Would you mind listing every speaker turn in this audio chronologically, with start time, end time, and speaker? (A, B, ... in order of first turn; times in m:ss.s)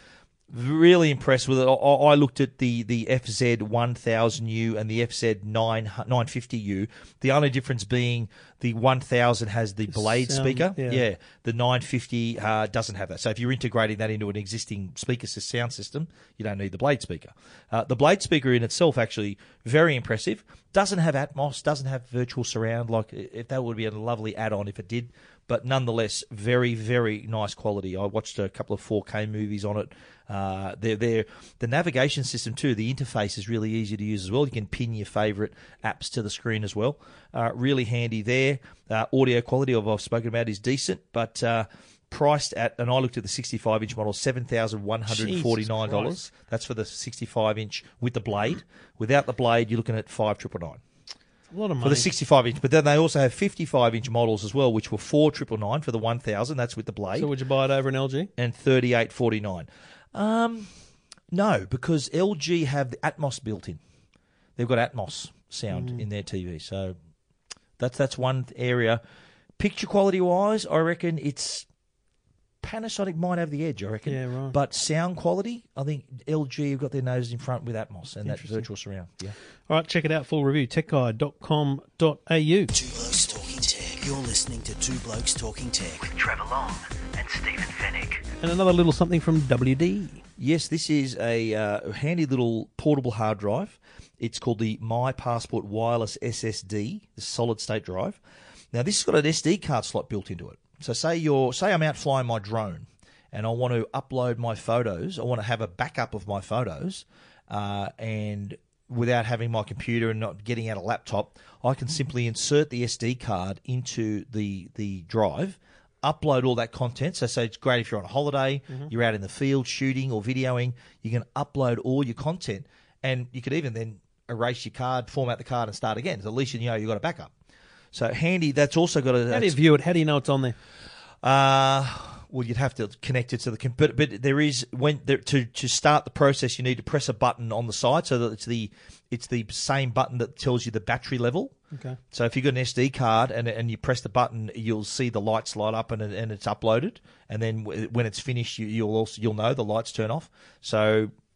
0:00.5-0:50.8 A
0:09.9-0:11.0 B
0:45.1-0:46.2 B
0:51.5-0:52.1 B
0:51.8-0:57.3 A
0:57.1-0:58.3 B
0:58.4-1:00.7 A
1:01.3-1:03.8 A
1:04.6-1:07.0 A
1:05.7-1:06.0 B
1:07.8-1:09.0 A
1:09.6-1:11.7 A
1:12.6-1:19.4 A
1:14.0-1:14.6 B
1:18.2-1:18.6 B
1:19.7-1:22.7 B
1:22.7-1:28.3 C
1:28.4-1:30.2 B
1:30.4-1:38.2 A
1:38.7-2:07.3 A
2:07.9-2:09.6 A
2:09.3-2:10.6 B
2:11.2-2:21.6 A
2:21.7-2:22.0 B
2:22.1-2:31.1 A